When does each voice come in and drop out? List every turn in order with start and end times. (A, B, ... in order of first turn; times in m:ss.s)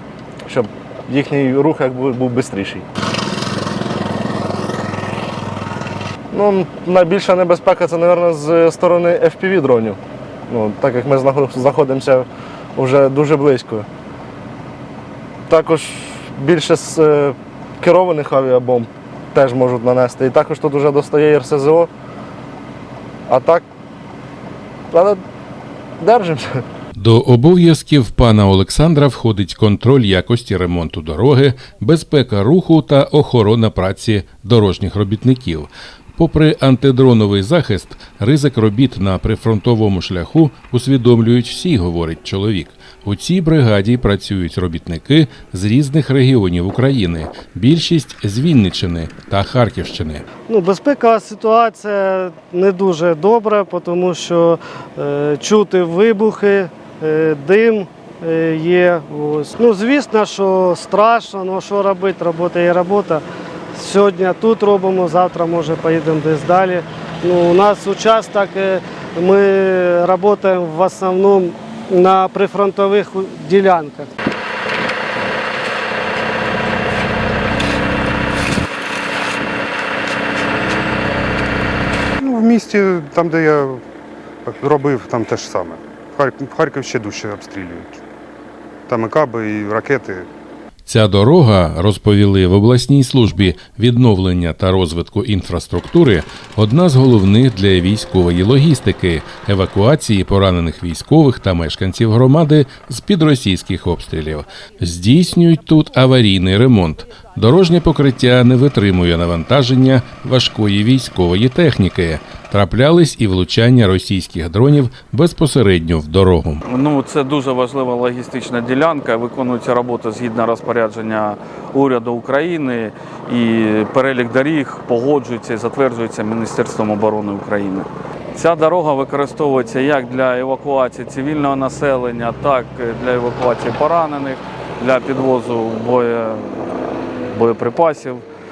0:00.5-0:02.8 A
0:06.3-0:13.9 A
0:15.5-0:21.9 A
0:23.3-0:23.6 A
0:24.9-0:25.2 A
0:26.0-0:26.6 A
0:27.0-0:50.2 B
0:50.5-1:14.1 C
1:22.2-1:23.8 D
1:24.4-1:28.0 D
1:28.9-1:30.3 D
1:30.9-1:56.6 B
1:56.6-2:16.6 E
2:17.3-2:18.2 E